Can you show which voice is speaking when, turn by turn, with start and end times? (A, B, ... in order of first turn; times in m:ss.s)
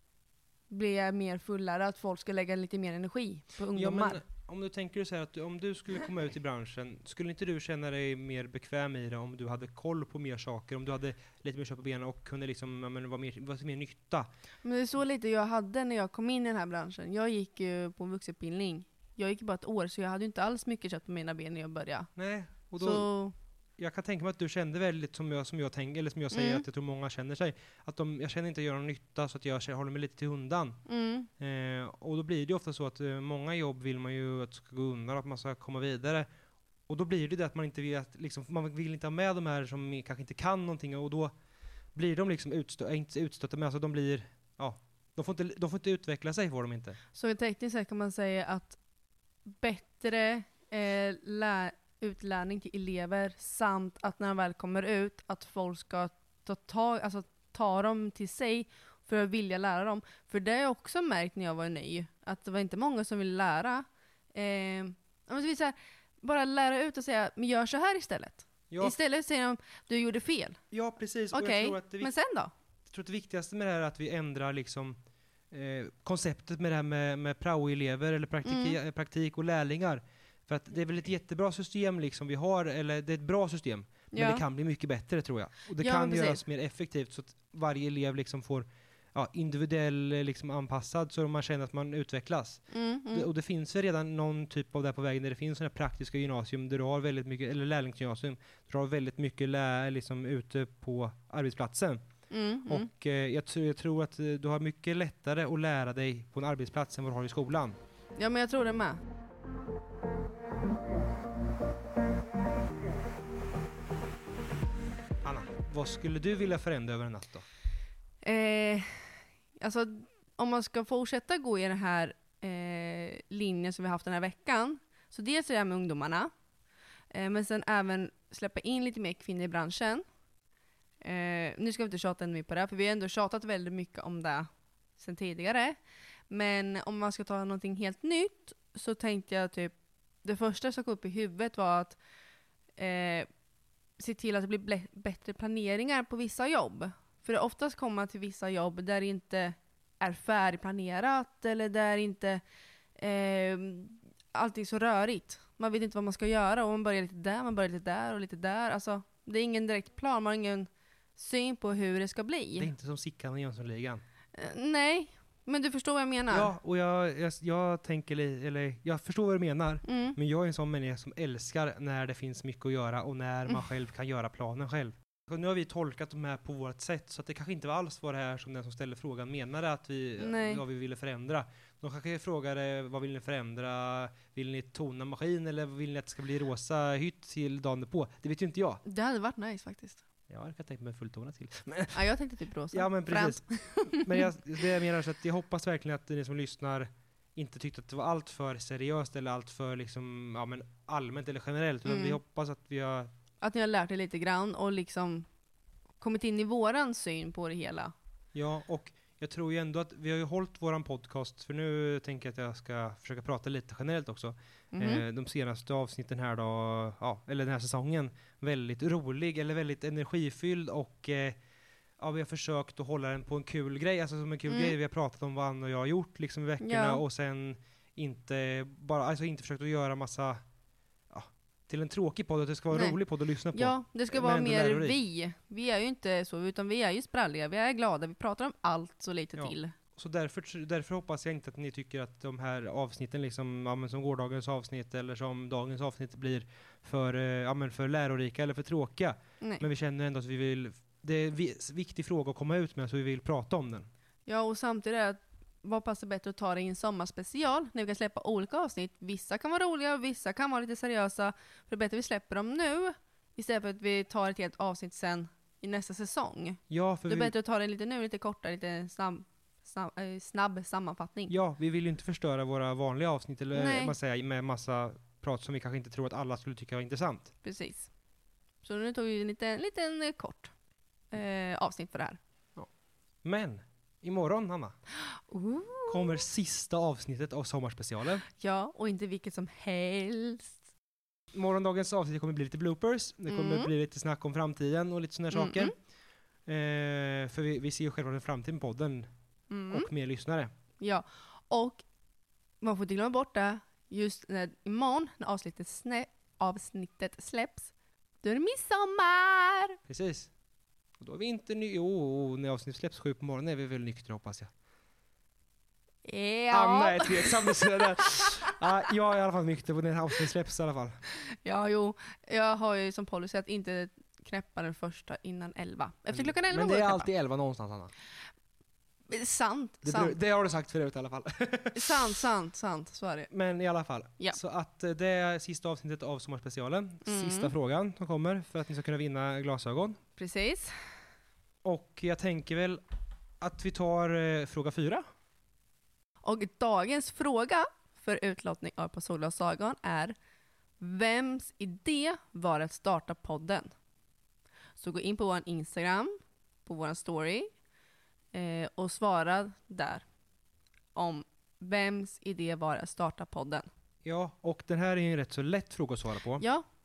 0:00.7-0:04.2 A
0:03.7-0:14.3 B
0:14.6-0:22.1 A
0:22.2-0:23.1 B
0:22.8-0:23.3 A
0:23.8-0:30.8 B
0:26.3-0:26.6 A
0:30.9-0:31.3 A
0:31.4-0:36.3 B
0:36.9-0:41.3 B
0:42.0-0:47.0 B
0:47.1-0:48.8 A
0:49.5-1:10.6 A
1:08.7-1:09.0 B
1:10.7-1:12.1 B
1:11.3-1:12.5 A
1:12.9-1:15.0 B
1:15.5-1:32.6 B
1:18.4-1:18.8 A
1:24.1-1:24.4 A
1:25.8-1:26.4 A
1:32.7-1:33.3 A
1:33.1-1:42.1 B
1:42.3-1:42.9 A
1:42.7-1:47.8 B
1:48.2-1:49.0 A
1:55.2-1:57.4 B
1:58.2-2:06.3 A
2:07.1-2:10.0 A
2:11.0-2:15.8 A
2:16.3-2:22.0 A
2:22.8-2:23.3 A
2:24.0-2:32.4 A
2:33.0-2:42.7 A
2:42.6-2:44.0 B
2:44.4-2:46.5 A
2:46.3-3:08.8 B
2:49.8-2:50.2 A
3:00.2-3:00.6 A
3:08.8-3:10.0 A
3:10.3-3:12.0 B
3:11.9-3:14.3 A
3:12.7-3:23.1 B
3:21.9-3:22.2 A
3:23.4-3:25.3 A
3:26.0-3:27.9 A
3:28.4-3:41.4 B
3:34.7-3:35.0 A
3:42.0-3:50.4 B
3:44.5-3:44.8 A
3:46.6-3:47.0 A
3:51.1-3:55.0 B
3:52.7-3:53.0 A
3:53.5-3:59.8 A
3:59.4-4:13.9 B
4:14.3-4:31.3 A
4:26.7-4:27.3 B
4:31.3-4:37.3 B
4:33.5-4:34.0 A
4:37.4-4:37.9 A
4:38.6-4:40.5 A
4:41.1-4:42.2 A
4:43.2-4:44.7 B
4:45.1-4:46.2 A
4:45.9-4:48.2 B
4:48.4-4:50.6 A
4:51.3-4:55.7 B
4:53.3-4:53.7 A
4:55.3-4:55.7 A
4:56.5-4:59.1 B
4:59.5-4:59.9 A
4:59.7-5:00.5 B
5:00.8-5:01.8 A
5:02.6-5:07.7 A
5:08.2-5:09.8 A
5:09.9-5:10.3 B
5:11.0-5:14.5 B
5:16.0-5:18.3 A
5:16.5-5:21.0 B
5:21.4-5:27.1 A
5:26.1-5:27.9 B
5:29.1-5:30.2 A
5:29.8-5:32.1 B
5:31.8-5:33.3 A
5:33.3-5:40.0 B
5:37.0-5:37.5 A
5:40.2-5:40.7 A
5:41.6-5:42.8 B
5:43.4-5:45.0 B
5:46.2-5:50.2 A
5:50.8-5:53.7 A
5:54.8-5:56.2 A
5:56.7-5:57.5 A
5:58.3-6:00.1 A
6:01.0-6:03.7 A
6:04.0-6:06.4 B
6:06.4-6:06.6 A